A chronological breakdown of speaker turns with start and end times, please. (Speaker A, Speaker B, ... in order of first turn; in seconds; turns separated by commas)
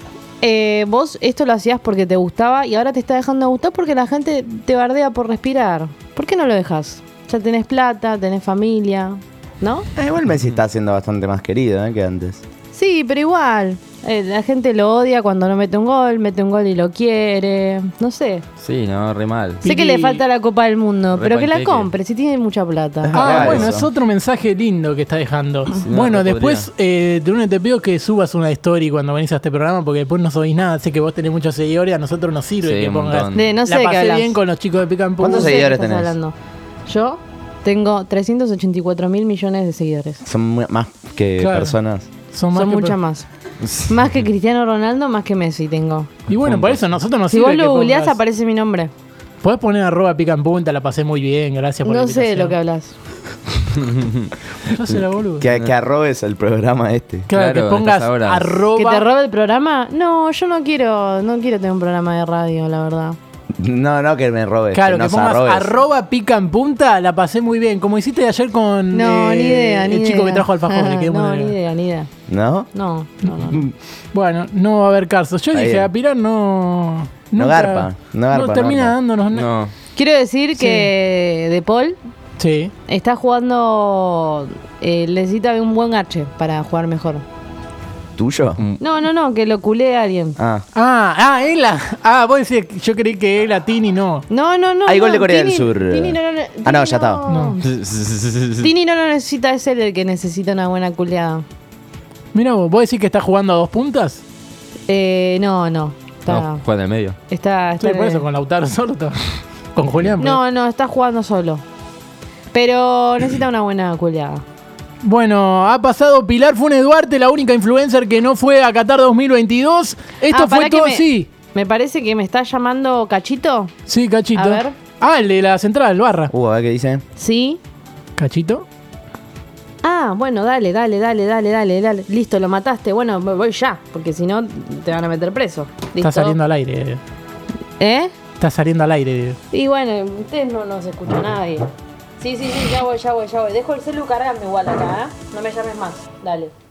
Speaker A: 0.4-9.9, Speaker B: 10.0-12.4, Speaker A: 12.7-18.4, Speaker C: 18.6-19.6, Speaker D: 19.6-20.2, Speaker A: 19.6-23.6, Speaker C: 21.1-21.9, Speaker B: 23.0-23.9, Speaker D: 23.1-35.6, Speaker C: 25.8-26.7, Speaker C: 32.6-33.5, Speaker A: 33.3-34.4, Speaker B: 35.2-36.1, Speaker A: 35.2-36.4, Speaker A: 36.9-40.2, Speaker B: 40.2-42.1, Speaker D: 41.4-41.8, Speaker D: 42.3-43.0, Speaker A: 42.5-43.3, Speaker C: 43.6-43.9, Speaker A: 43.9-46.1, Speaker D: 46.3-48.2, Speaker C: 46.4-46.8, Speaker A: 47.3-48.9, Speaker D: 49.4-52.6, Speaker A: 51.8-52.9, Speaker C: 53.8-54.3, Speaker D: 54.6-55.5, Speaker B: 55.4-57.3, Speaker C: 55.5-55.7, Speaker D: 57.3-59.1, Speaker C: 57.3-58.6, Speaker A: 58.8-63.2, Speaker B: 63.6-65.7, Speaker D: 64.7-71.5, Speaker A: 68.9-72.1, Speaker B: 72.3-72.7, Speaker A: 72.7-73.7, Speaker D: 73.2-73.6, Speaker D: 74.1-79.5, Speaker B: 75.5-75.9, Speaker B: 77.4-79.0, Speaker C: 79.3-79.7, Speaker A: 80.0-82.0, Speaker D: 80.6-80.9, Speaker D: 82.4-82.7, Speaker A: 82.9-87.2, Speaker B: 88.2-88.6, Speaker A: 88.8-90.4, Speaker B: 90.4-90.7, Speaker D: 90.8-94.2, Speaker A: 94.3-97.7, Speaker B: 94.9-97.3, Speaker D: 97.3-97.6, Speaker C: 97.6-98.7, Speaker A: 98.6-101.4, Speaker D: 102.3-104.2, Speaker A: 104.9-106.6, Speaker C: 106.3-107.2, Speaker A: 107.3-108.2, Speaker D: 107.8-110.4, Speaker A: 110.2-111.6, Speaker A: 112.5-114.4, Speaker D: 115.0-121.3, Speaker A: 120.3-123.7, Speaker D: 123.9-126.3, Speaker A: 124.3-124.8, Speaker B: 126.3-127.0, Speaker A: 127.2-127.6, Speaker D: 128.2-128.7, Speaker A: 129.8-136.4, Speaker D: 136.0-137.0, Speaker A: 137.8-138.1, Speaker D: 138.4-139.4, Speaker A: 139.5-146.5